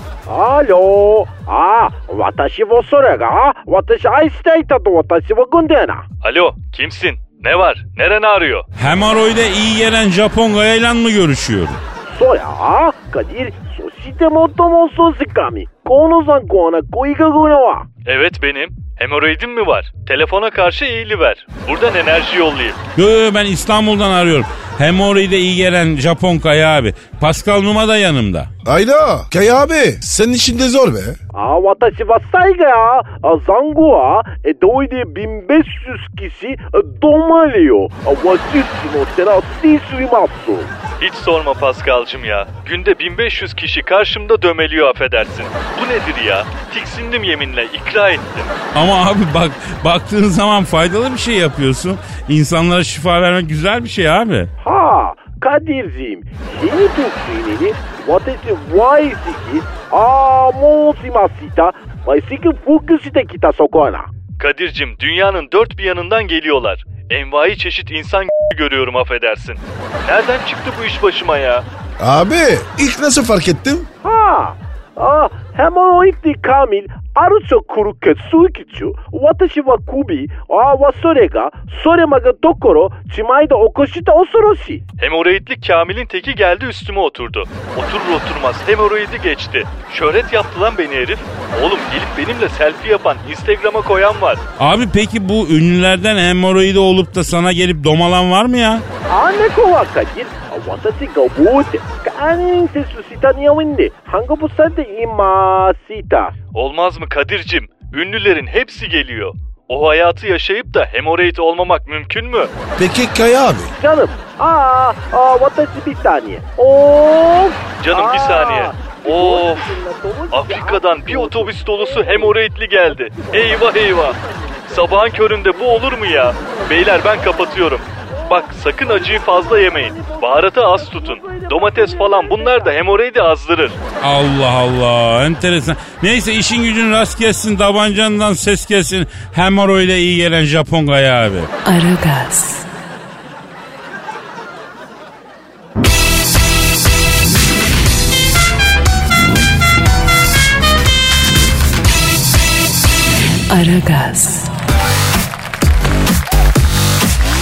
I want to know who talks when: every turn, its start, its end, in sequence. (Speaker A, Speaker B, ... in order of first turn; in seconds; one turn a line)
Speaker A: 0.3-6.0
Speaker B: 6.2-8.7
Speaker C: 8.8-11.8
Speaker A: 12.1-17.9
Speaker B: 18.1-22.8
Speaker C: 22.9-28.5
Speaker D: 28.6-31.2
Speaker A: 31.3-40.7
Speaker B: 41.0-48.5
Speaker C: 48.7-54.5
Speaker A: 54.6-64.1
Speaker B: 64.4-71.6
Speaker D: 72.0-73.9
Speaker A: 74.0-84.8
Speaker B: 85.0-94.4
Speaker C: 94.6-98.8
Speaker A: 99.1-106.3
Speaker B: 106.5-112.5
Speaker D: 112.8-113.7
Speaker A: 113.8-122.4
Speaker B: 117.8-124.2
Speaker A: 123.1-127.6
Speaker B: 124.7-133.8
Speaker A: 128.2-132.8
Speaker C: 134.0-141.5
Speaker E: 141.6-142.7
Speaker E: 153.5-154.5